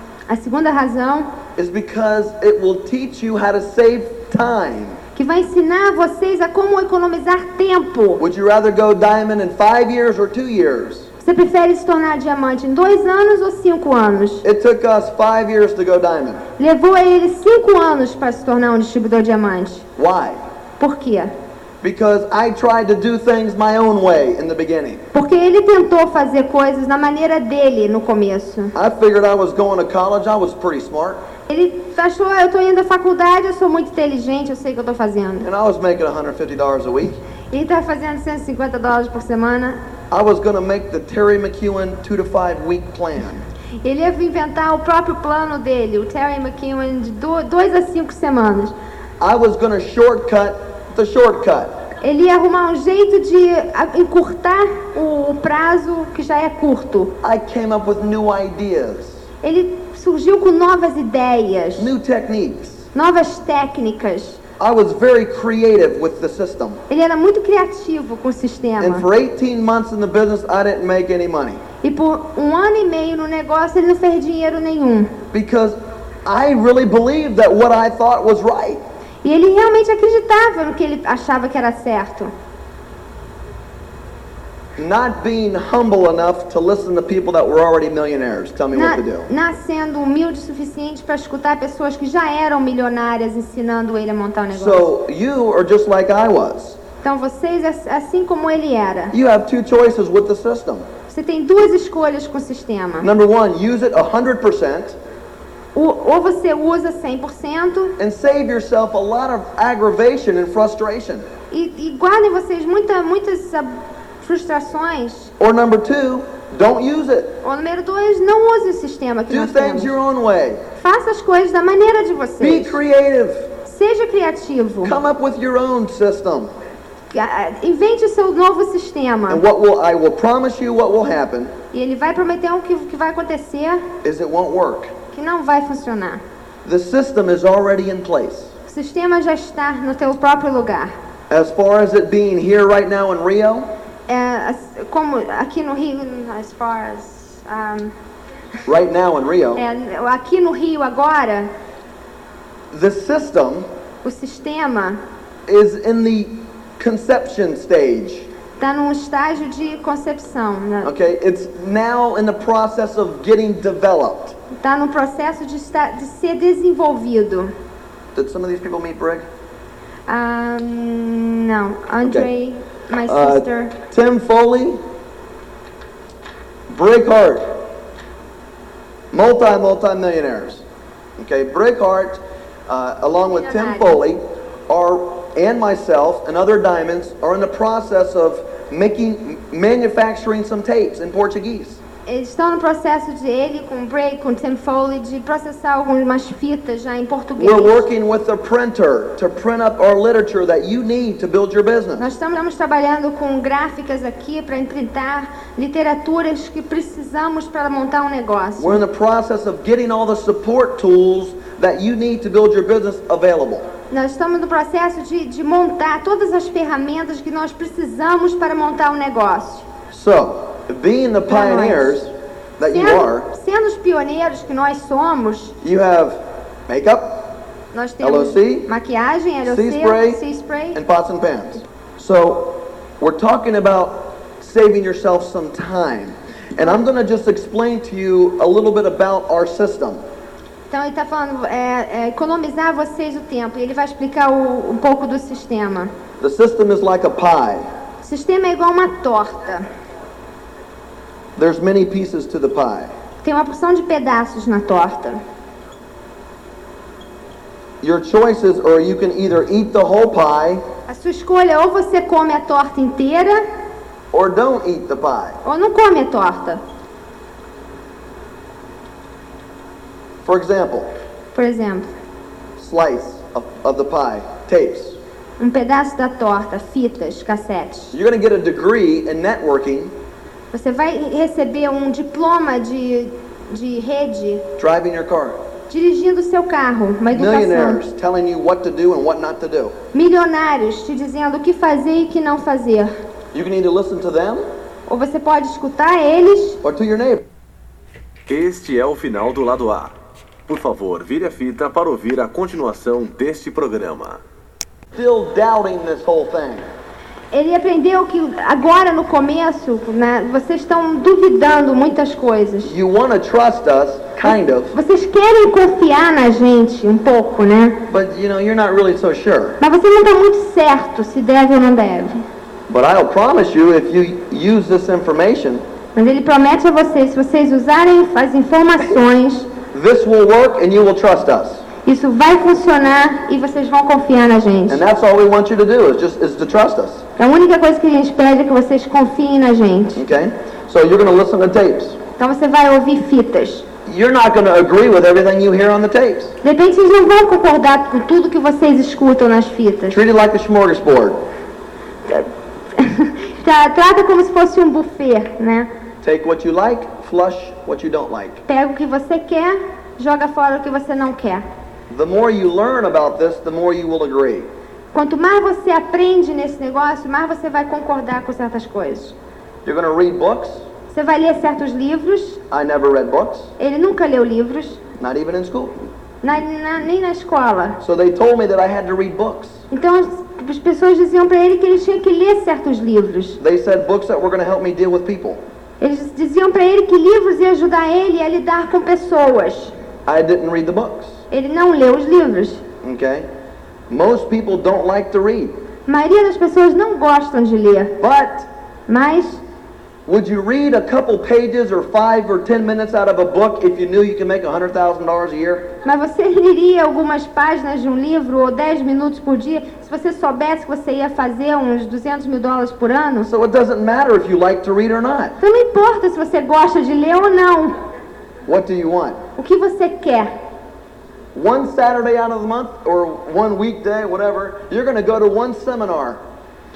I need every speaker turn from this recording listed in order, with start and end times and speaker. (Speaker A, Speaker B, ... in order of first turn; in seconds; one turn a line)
Speaker A: 0.3-1.3
Speaker B: 1.6-5.0
Speaker A: 5.2-8.2
Speaker B: 8.2-11.1
Speaker A: 11.2-14.4
Speaker B: 14.4-16.4
Speaker A: 16.6-19.9
Speaker B: 20.0-20.4
Speaker A: 20.8-21.3
Speaker B: 21.8-25.0
Speaker A: 25.1-28.7
Speaker B: 28.7-31.2
Speaker A: 31.5-35.5
Speaker B: 35.4-37.2
Speaker A: 37.5-39.8
Speaker B: 40.1-43.4
Speaker A: 43.8-48.7
Speaker B: 49.2-51.8
Speaker A: 52.0-57.1
Speaker B: 57.2-59.2
Speaker A: 59.4-61.9
Speaker B: 61.8-62.8
Speaker A: 62.9-64.4
Speaker B: 64.6-66.8
Speaker A: 66.9-69.0
Speaker B: 68.8-71.6
Speaker A: 71.8-75.1
Speaker B: 75.3-78.8
Speaker A: 79.2-82.3
Speaker B: 84.8-89.3
Speaker A: 88.7-94.9
Speaker B: 94.5-96.8
Speaker A: 97.0-99.1
Speaker B: 99.1-100.9
Speaker A: 101.1-103.1
Speaker B: 103.0-105.0
Speaker A: 105.7-108.0
Speaker B: 108.0-111.2
Speaker A: 111.5-115.3
Speaker B: 115.4-117.4
Speaker A: 117.4-120.0
Speaker B: 119.3-120.6
Speaker A: 120.8-122.8
Speaker B: 122.4-123.5
Speaker A: 123.6-125.0
Speaker B: 124.8-126.5
Speaker A: 127.1-129.4
Speaker B: 129.3-131.5
Speaker A: 131.7-133.8
Speaker B: 134.0-134.9
Speaker A: 135.1-136.2
Speaker B: 136.6-138.5
Speaker A: 138.7-140.9
Speaker B: 141.3-143.7
Speaker A: 144.1-147.9
Speaker B: 148.7-149.6
Speaker A: 149.5-151.5
Speaker B: 152.7-153.7
Speaker A: 154.0-155.0
Speaker B: 155.5-158.3
Speaker A: 158.6-160.9
Speaker B: 160.8-164.3
Speaker A: 164.6-167.5
Speaker B: 168.1-169.2
Speaker A: 170.1-173.7
Speaker B: 172.0-172.3
Speaker B: 173.0-174.8
Speaker B: 176.7-177.6
Speaker B: 179.1-180.6
Speaker B: 181.2-191.8
Speaker A: 183.3-184.0
Speaker A: 192.1-197.8
Speaker B: 197.4-202.1
Speaker A: 202.0-208.8
Speaker B: 208.6-213.7
Speaker A: 213.9-219.7
Speaker B: 219.9-223.3
Speaker A: 221.3-222.0
Speaker A: 222.6-225.5
Speaker B: 225.6-227.3
Speaker A: 227.7-230.8
Speaker B: 228.0-228.7
Speaker B: 229.4-230.2
Speaker B: 230.7-240.0
Speaker A: 240.7-245.9
Speaker B: 246.2-247.6
Speaker A: 248.0-249.7
Speaker B: 251.4-252.9
Speaker A: 253.2-255.2
Speaker B: 257.8-260.6
Speaker A: 260.9-263.4
Speaker B: 264.1-265.4
Speaker A: 265.4-266.6
Speaker B: 270.2-270.9
Speaker A: 271.3-271.9
Speaker B: 272.6-275.0
Speaker A: 275.4-277.9
Speaker B: 277.9-279.9
Speaker A: 280.5-284.4
Speaker B: 284.6-285.4
Speaker A: 285.7-287.8
Speaker B: 287.1-289.7
Speaker A: 289.9-292.9
Speaker B: 293.3-294.4
Speaker A: 294.9-296.6
Speaker B: 296.6-297.2
Speaker C: 298.3-299.9
Speaker C: 300.5-304.2
Speaker B: 304.9-306.6
Speaker A: 307.3-312.7
Speaker B: 312.6-314.7
Speaker A: 314.7-317.8
Speaker B: 317.9-319.6
Speaker A: 319.6-322.2
Speaker B: 322.7-325.6
Speaker A: 325.9-329.5
Speaker B: 329.7-331.6
Speaker A: 331.8-334.8
Speaker B: 334.7-337.0
Speaker A: 337.2-340.0
Speaker B: 339.9-342.0
Speaker A: 342.2-343.6
Speaker B: 343.9-346.4
Speaker A: 346.4-350.0
Speaker B: 349.9-351.2
Speaker A: 352.1-355.7
Speaker B: 356.0-358.4
Speaker A: 358.5-361.4
Speaker B: 361.9-364.5
Speaker A: 364.9-369.1
Speaker B: 369.6-370.6
Speaker A: 370.9-372.4
Speaker B: 372.5-373.5
Speaker A: 373.6-374.8
Speaker B: 375.0-375.7
Speaker A: 376.2-377.8
Speaker B: 377.8-379.6
Speaker A: 379.7-383.4
Speaker B: 383.4-385.4
Speaker A: 385.8-389.7
Speaker B: 390.1-391.2
Speaker A: 391.3-392.6
Speaker B: 392.8-393.3
Speaker B: 393.9-395.5
Speaker A: 395.9-398.0
Speaker B: 398.0-398.5
Speaker A: 398.9-399.4
Speaker B: 400.1-405.7
Speaker A: 405.8-413.3
Speaker B: 413.2-415.4
Speaker A: 415.4-417.8
Speaker B: 418.4-419.2
Speaker A: 419.4-420.3
Speaker B: 421.3-426.2